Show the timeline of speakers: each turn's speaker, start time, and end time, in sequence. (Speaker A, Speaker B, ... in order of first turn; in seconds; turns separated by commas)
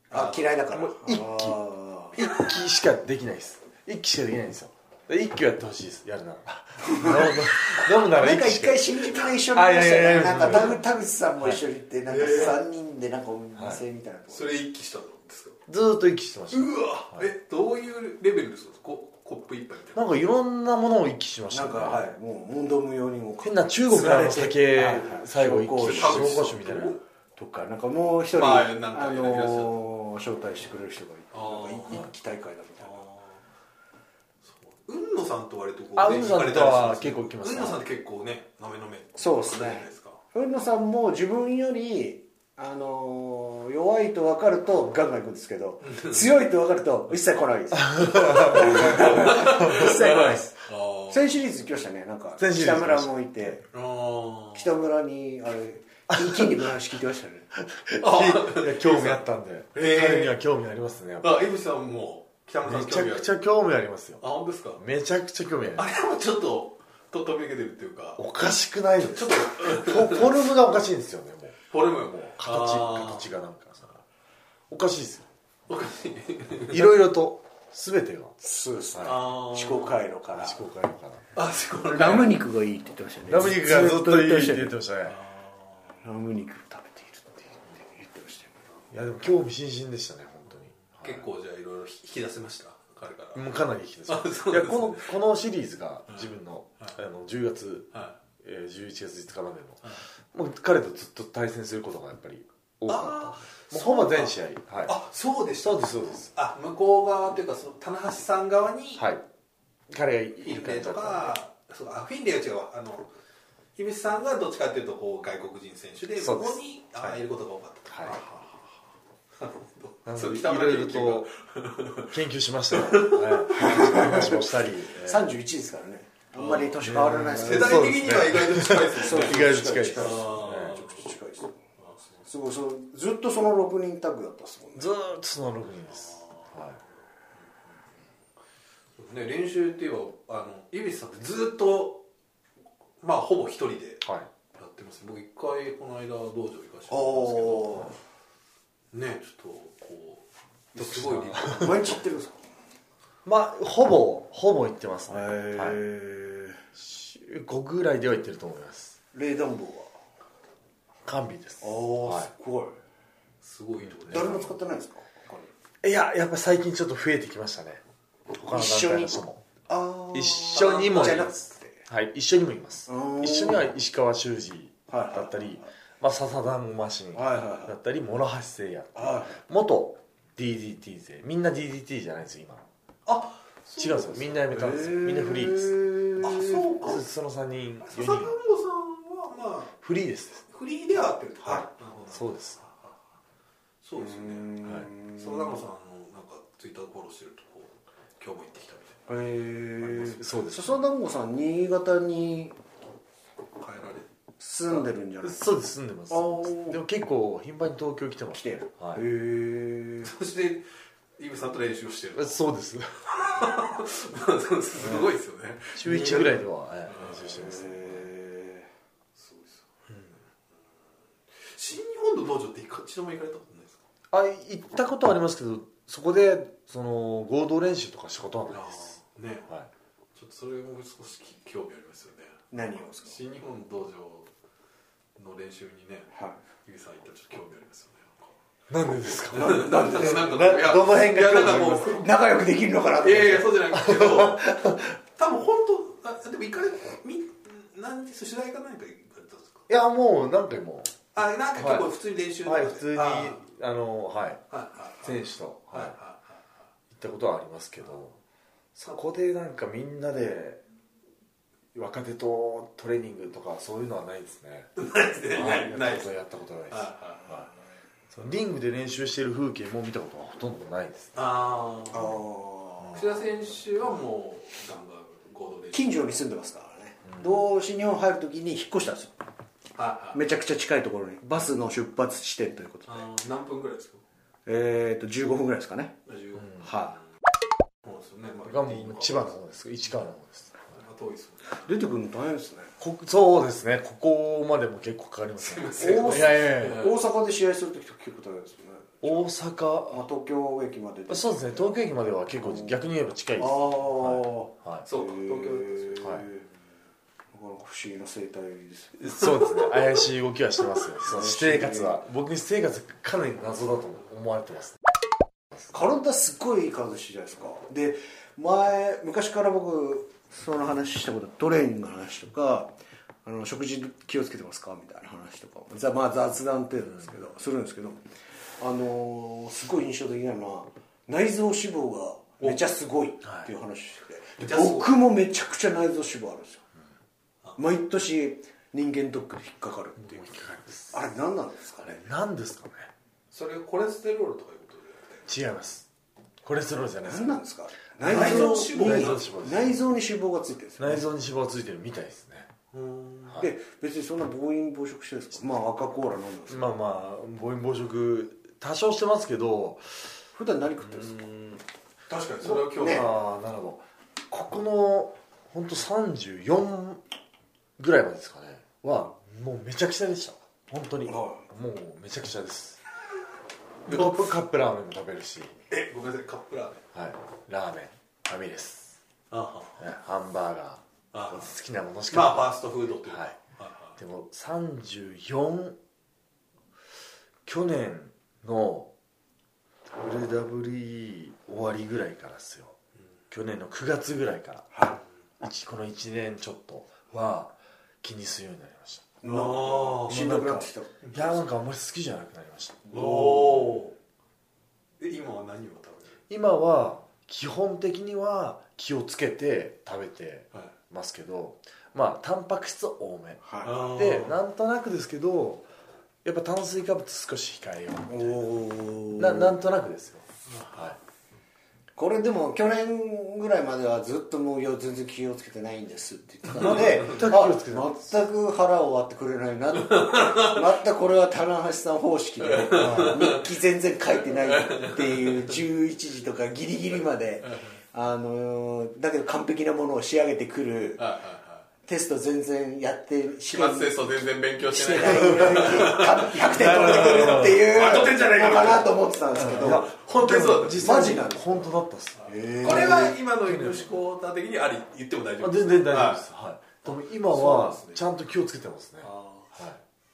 Speaker A: 0.1-0.6, Speaker B: 0.1-2.2, Speaker C: 0.7-1.6, Speaker C: 2.1-10.8, Speaker B: 6.9-14.6, Speaker A: 12.1-12.6, Speaker C: 12.3-12.6, Speaker C: 13.6-13.8, Speaker A: 14.3-15.6, Speaker C: 15.7-17.3, Speaker A: 16.5-20.1, Speaker C: 19.9-22.1, Speaker B: 21.5-26.6, Speaker C: 23.4-27.0, Speaker A: 25.8-27.0, Speaker B: 27.4-33.1, Speaker A: 28.3-29.8, Speaker A: 31.3-32.0, Speaker A: 32.8-33.3, Speaker A: 34.5-40.2, Speaker C: 36.0-37.8, Speaker B: 39.2-53.7, Speaker A: 45.9-46.2, Speaker C: 47.8-49.9, Speaker A: 48.5-51.2, Speaker C: 52.4-53.6, Speaker A: 53.7-54.7, Speaker B: 54.5-57.5, Speaker C: 56.1-56.5, Speaker C: 57.6-61.5, Speaker A: 58.0-59.2, Speaker A: 59.8-60.4, Speaker A: 61.2-63.3, Speaker C: 62.6-64.2, Speaker A: 64.2-64.8, Speaker C: 64.8-66.0, Speaker A: 65.8-68.2, Speaker C: 68.2-74.0, Speaker A: 69.1-70.4, Speaker A: 71.7-73.3, Speaker C: 74.7-75.3, Speaker A: 75.7-76.9, Speaker C: 76.7-78.4, Speaker B: 78.4-80.6, Speaker C: 78.9-79.2, Speaker A: 79.0-80.0, Speaker C: 80.3-81.2, Speaker A: 81.3-82.3, Speaker B: 81.9-84.7, Speaker C: 83.3-85.2, Speaker A: 85.1-85.7, Speaker B: 86.0-88.6, Speaker C: 88.9-91.3, Speaker A: 90.9-93.5, Speaker C: 93.3-97.9, Speaker A: 94.1-95.1, Speaker C: 98.4-105.0, Speaker A: 102.9-109.0, Speaker C: 105.6-106.3, Speaker C: 109.0-109.2, Speaker C: 109.9-111.4, Speaker A: 110.4-113.1, Speaker A: 113.8-118.7, Speaker C: 116.2-117.2, Speaker C: 117.9-118.2, Speaker A: 119.4-122.1, Speaker C: 120.1-121.3, Speaker C: 122.1-125.3, Speaker A: 122.7-124.3, Speaker B: 123.5-128.0, Speaker A: 126.4-131.0, Speaker C: 126.8-130.8, Speaker B: 128.9-131.6, Speaker A: 131.8-132.2, Speaker B: 132.3-134.9, Speaker C: 134.8-136.8, Speaker A: 139.0-142.0, Speaker A: 143.0-144.0, Speaker C: 144.0-144.3, Speaker A: 144.6-147.9, Speaker B: 146.9-148.0, Speaker A: 148.9-151.9, Speaker C: 150.8-151.8, Speaker B: 151.5-152.4, Speaker C: 153.2-155.8, Speaker B: 155.1-156.6, Speaker C: 156.8-159.0, Speaker B: 159.1-159.9, Speaker C: 161.1-162.3, Speaker B: 161.6-162.8, Speaker A: 163.4-164.5, Speaker C: 163.9-164.5, Speaker B: 164.1-165.5, Speaker C: 165.8-167.8, Speaker C: 168.3-169.4, Speaker B: 168.5-171.8, Speaker C: 170.1-171.3, Speaker A: 170.5-171.3, Speaker C: 171.9-182.7, Speaker B: 172.9-173.7, Speaker B: 174.9-175.7, Speaker B: 177.1-177.8, Speaker B: 178.9-179.4, Speaker A: 183.1-184.5, Speaker C: 183.8-185.8, Speaker B: 184.5-186.8, Speaker A: 186.2-187.0, Speaker C: 186.8-188.3, Speaker A: 187.8-189.7, Speaker C: 189.8-190.4, Speaker A: 190.5-192.9, Speaker C: 192.1-192.6, Speaker A: 193.8-199.0, Speaker B: 194.0-195.5, Speaker B: 199.1-202.6, Speaker C: 199.8-200.8, Speaker A: 203.6-204.1, Speaker B: 204.4-205.4, Speaker C: 205.2-209.0, Speaker B: 206.1-206.8, Speaker B: 208.3-210.1, Speaker A: 210.0-210.7, Speaker A: 211.2-212.4, Speaker C: 212.2-213.0, Speaker A: 213.1-216.4, Speaker C: 215.8-218.1, Speaker A: 216.9-217.2, Speaker B: 217.4-218.7, Speaker A: 219.2-219.7, Speaker A: 221.5-223.8, Speaker C: 224.1-228.9, Speaker A: 228.5-229.5, Speaker A: 230.2-232.4, Speaker B: 232.5-233.2, Speaker A: 233.0-234.3, Speaker A: 235.2-236.1, Speaker A: 236.7-238.3, Speaker C: 238.7-242.0, Speaker A: 239.3-242.1, Speaker B: 239.3-240.3, Speaker B: 241.9-243.6, Speaker A: 243.0-244.6, Speaker C: 243.7-244.9, Speaker A: 245.2-249.6, Speaker C: 249.7-251.0, Speaker A: 251.2-253.4, Speaker C: 251.6-251.9, Speaker C: 252.4-254.4, Speaker A: 254.5-255.2, Speaker C: 255.0-256.0, Speaker A: 255.7-256.4, Speaker C: 256.9-258.2, Speaker C: 258.8-260.6, Speaker C: 261.7-264.7, Speaker A: 264.8-266.1, Speaker C: 265.3-267.5, Speaker A: 266.7-267.4, Speaker C: 268.1-271.2, Speaker A: 271.2-272.1, Speaker B: 271.9-273.0, Speaker A: 272.9-276.2, Speaker B: 275.7-279.1, Speaker A: 279.8-280.2, Speaker B: 280.1-283.1, Speaker A: 282.9-284.0, Speaker B: 284.5-286.0, Speaker A: 286.1-286.8, Speaker B: 286.6-287.0, Speaker A: 287.8-289.4, Speaker C: 288.5-290.6, Speaker A: 290.7-291.7, Speaker B: 291.6-292.7, Speaker C: 292.8-296.9, Speaker A: 295.4-296.9, Speaker B: 295.8-299.2, Speaker C: 299.0-300.1, Speaker B: 299.9-301.8, Speaker C: 301.1-304.9, Speaker B: 302.4-302.8, Speaker B: 303.4-306.4, Speaker A: 304.9-306.2, Speaker B: 307.3-309.2, Speaker C: 309.0-314.8, Speaker B: 311.1-312.0, Speaker B: 315.7-322.7, Speaker B: 323.2-328.0, Speaker B: 328.6-336.6, Speaker A: 334.4-334.9, Speaker B: 337.6-340.4, Speaker C: 340.0-341.0, Speaker B: 340.9-342.1, Speaker C: 341.9-342.9, Speaker A: 343.3-345.2, Speaker C: 345.3-345.9, Speaker C: 346.4-347.4, Speaker B: 347.0-351.1, Speaker C: 348.0-349.8, Speaker A: 348.1-349.3, Speaker C: 350.8-352.5, Speaker A: 352.7-353.4, Speaker B: 353.4-356.7, Speaker C: 356.5-360.1, Speaker B: 360.4-361.4, Speaker A: 362.1-363.1, Speaker B: 362.4-363.1, Speaker C: 362.4-367.0, Speaker C: 367.8-372.8, Speaker B: 371.1-371.4, Speaker C: 373.9-375.6, Speaker A: 373.9-374.2, Speaker A: 375.7-376.8, Speaker C: 376.9-379.0, Speaker A: 379.3-379.8, Speaker C: 379.8-382.5, Speaker A: 381.1-381.5, Speaker A: 382.1-384.0, Speaker C: 383.1-383.4, Speaker C: 384.0-385.8, Speaker C: 387.5-388.9, Speaker C: 389.9-392.8, Speaker C: 393.3-394.8, Speaker B: 394.7-395.0, Speaker C: 395.4-399.2, Speaker B: 399.2-401.3, Speaker A: 399.2-400.2, Speaker C: 400.1-403.1, Speaker B: 402.9-403.7, Speaker A: 402.9-403.9, Speaker A: 405.0-406.2, Speaker C: 406.3-415.7, Speaker B: 413.4-413.8, Speaker A: 413.6-414.4, Speaker C: 416.2-418.6, Speaker B: 418.1-419.6, Speaker C: 419.2-421.0, Speaker A: 420.5-420.9, Speaker B: 422.0-441.1, Speaker C: 426.6-428.1, Speaker A: 426.6-427.3, Speaker A: 429.8-430.6, Speaker A: 432.4-433.5, Speaker C: 432.8-433.3, Speaker A: 434.2-435.6, Speaker A: 437.4-437.8, Speaker A: 441.0-441.6, Speaker B: 441.9-444.1, Speaker A: 443.5-451.2, Speaker B: 444.7-449.9, Speaker C: 445.4-445.7, Speaker C: 446.5-447.7, Speaker C: 449.4-454.0, Speaker B: 450.7-451.7, Speaker B: 452.2-453.2, Speaker A: 452.6-456.2, Speaker C: 455.4-459.8, Speaker A: 456.8-458.0, Speaker A: 459.0-459.5